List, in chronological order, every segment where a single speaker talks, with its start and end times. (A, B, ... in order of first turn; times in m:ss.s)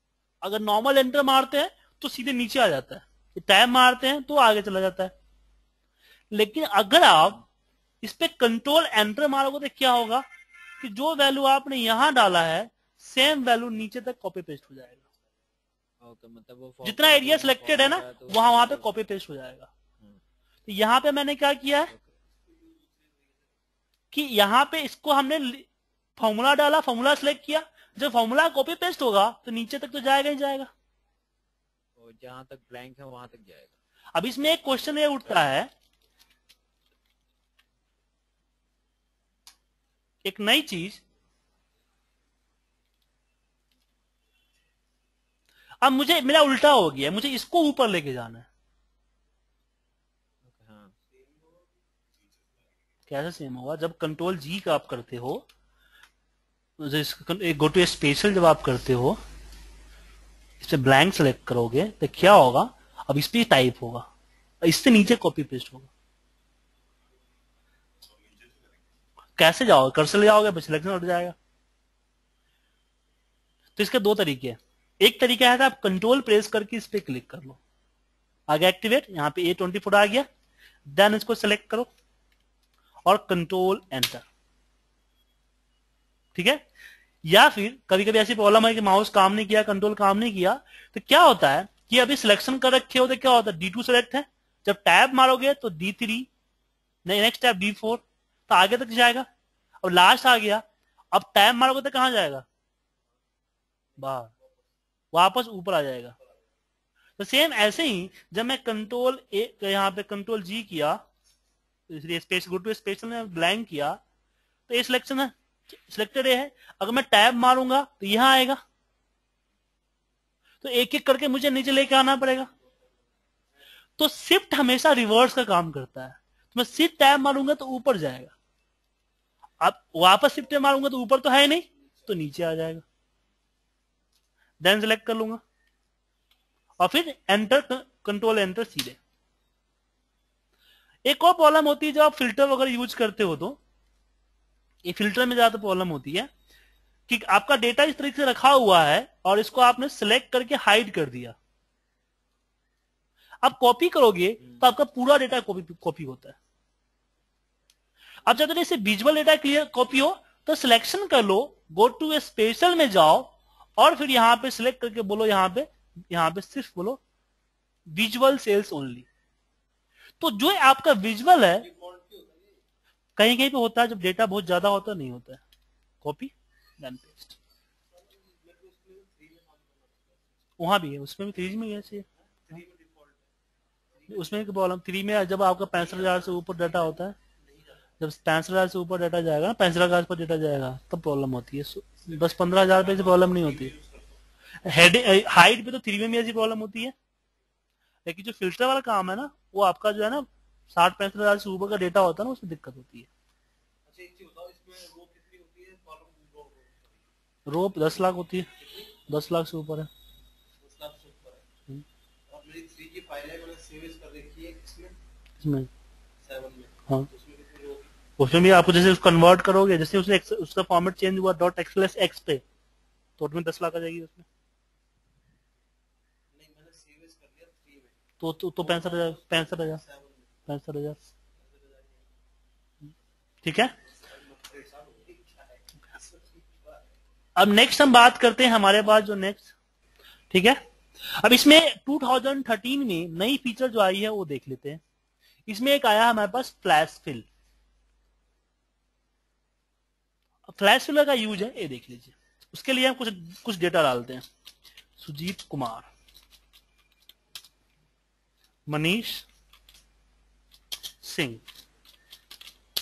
0:00.4-0:05.1 A
0:06.3-0:07.4 A
0:08.0-0:10.2 A
0:10.8-0:15.0 A
0:16.0-0:18.9 B
0:16.8-0:19.7 A
0:20.7-0:21.9 A
0:21.9-0:22.2 B
0:22.4-0:23.6 C
0:24.1-0:30.7 A
0:32.0-0:33.8 B
0:34.2-0:35.7 A
0:40.2-0:41.0 A
0:45.8-0:48.5 A
0:50.4-0:51.0 B
0:51.1-0:51.8 C
0:53.1-0:55.5 A
0:56.8-0:59.2 A
1:00.6-1:04.1 A
1:04.6-1:05.9 A
1:09.4-1:11.4 A
1:13.8-1:17.6 A
1:18.5-1:20.3 A
1:20.9-1:21.9 A
1:23.1-1:24.2 A
1:26.4-1:26.6 A
1:27.2-1:36.3 A
1:37.1-1:39.3 A
1:39.8-1:42.4 A
1:44.0-1:44.7 C
1:44.0-1:44.3 A
1:45.1-1:46.2 A
1:47.2-1:51.0 A
1:51.9-1:54.0 A
1:54.7-1:55.3 A
1:55.9-1:58.6 A
2:00.6-2:02.5 A
2:04.0-2:08.3 A
2:09.6-2:12.8 A
2:14.6-2:15.4 A
2:16.8-2:19.0 A
2:21.1-2:23.6 A
2:24.8-2:26.3 A
2:27.1-2:31.4 A
2:33.4-2:36.4 A
2:34.4-2:34.7 B
2:38.2-2:47.0 A
2:47.9-2:49.1 A
2:50.2-2:51.7 A
2:51.6-2:52.6 C
2:53.2-2:55.4 A
2:56.0-2:57.4 A
2:57.9-3:00.5 C
3:00.6-3:02.1 A
3:02.0-3:03.3 C
3:03.9-3:04.6 C
3:04.1-3:07.2 A
3:05.8-3:06.6 C
3:07.4-3:07.8 C
3:08.0-3:13.7 A
3:12.1-3:14.2 C
3:14.6-3:16.9 A
3:18.1-3:23.1 A
3:23.9-3:27.1 C
3:27.5-3:28.5 A
3:28.5-3:29.0 C
3:29.1-3:29.9 A
3:30.6-3:31.5 C
3:32.3-3:35.0 C
3:35.4-3:35.7 A
3:36.2-3:37.9 C
3:38.2-3:42.4 A
3:43.2-3:44.3 A
3:46.3-3:48.0 C
3:48.2-3:49.8 A
3:48.6-3:50.5 C
3:50.5-3:51.0 A
3:51.4-3:52.1 C
3:53.4-3:53.7 A
3:53.9-3:56.9 C
3:57.4-3:59.5 A
4:00.3-4:00.6 A
4:01.1-4:04.8 A
4:05.5-4:07.3 A
4:10.5-4:14.2 A
4:15.0-4:15.9 A
4:18.7-4:19.3 A
4:21.0-4:21.4 A